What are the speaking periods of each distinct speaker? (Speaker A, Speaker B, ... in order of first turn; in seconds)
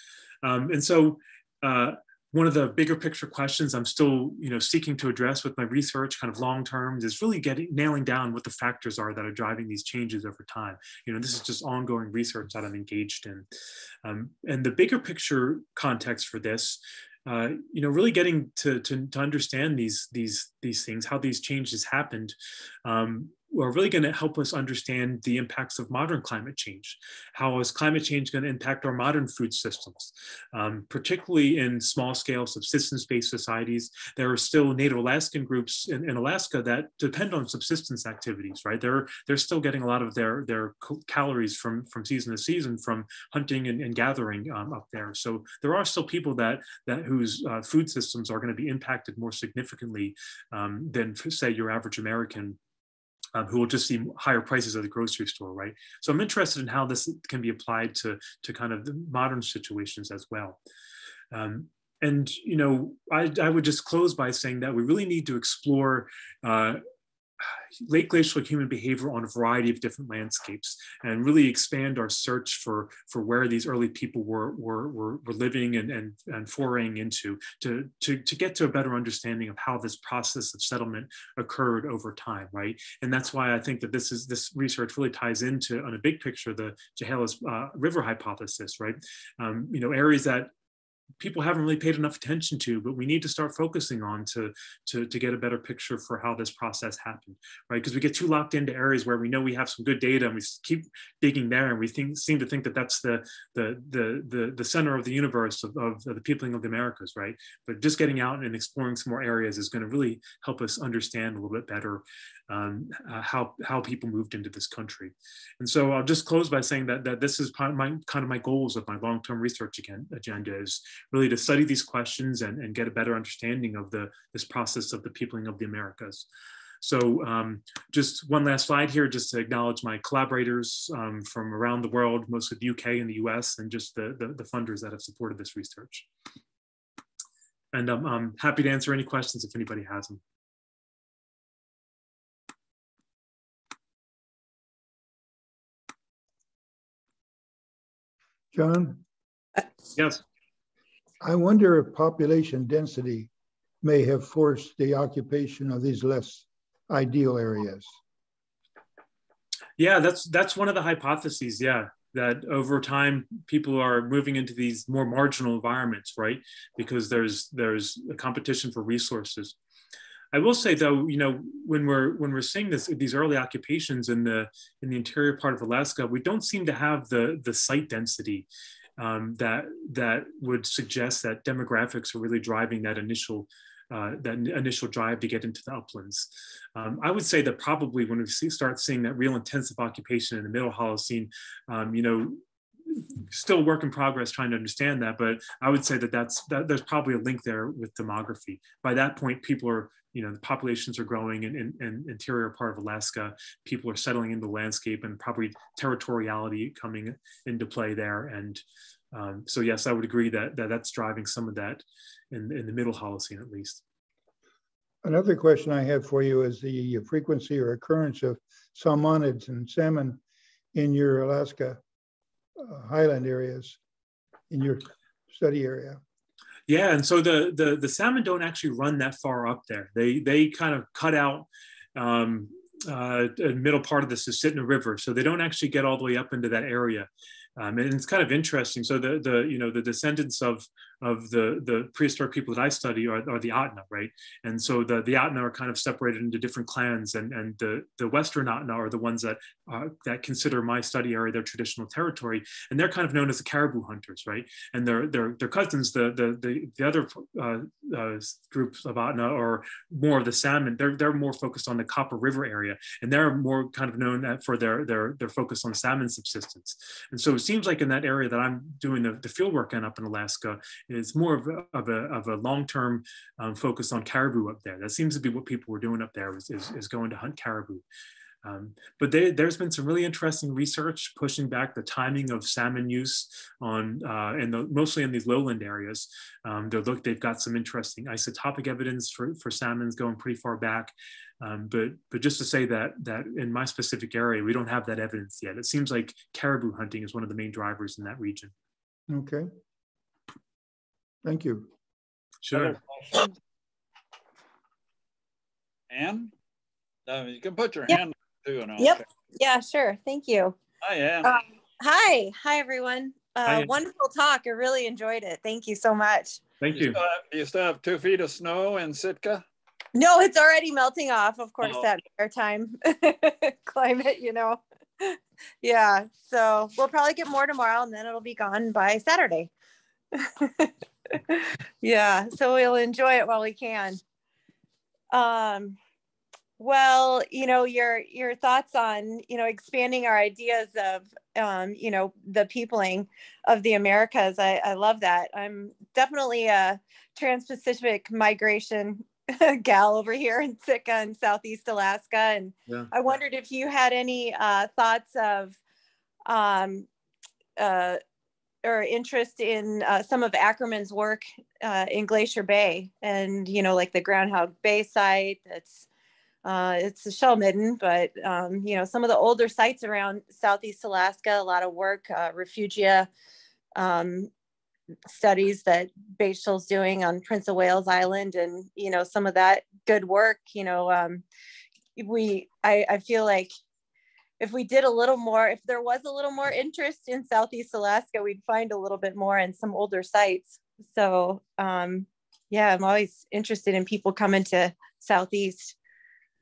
Speaker A: 0.4-13.5, 14.0-52.6, 53.3-60.6, 61.3-66.8, 67.4-90.5, 91.2-126.3, 126.8-136.1, 137.7-140.2, 149.9-150.2, 159.8-169.6, 170.3-178.5, 179.0-213.8, 226.7-277.9, 278.4-298.5, 302.4-302.8, 313.4-313.7, 316.6-317.0
Speaker B: 148.5-149.0, 151.2-153.3, 153.8-157.9, 215.0-220.2, 220.7-221.8, 222.6-223.8, 224.5-226.0, 299.1-299.5, 301.2-301.7
Speaker C: 302.5-303.4, 305.9-306.3, 307.1-309.0, 310.8-311.4, 316.7-319.4
Speaker D: 308.8-310.6, 311.2-316.4, 319.9-329.5, 330.1-334.0, 335.1-335.8, 336.6-355.6, 356.3-356.9, 357.6-358.0, 358.6-365.9, 366.4-373.1, 373.8-374.3, 375.1-381.2, 381.9-383.5, 384.4-395.7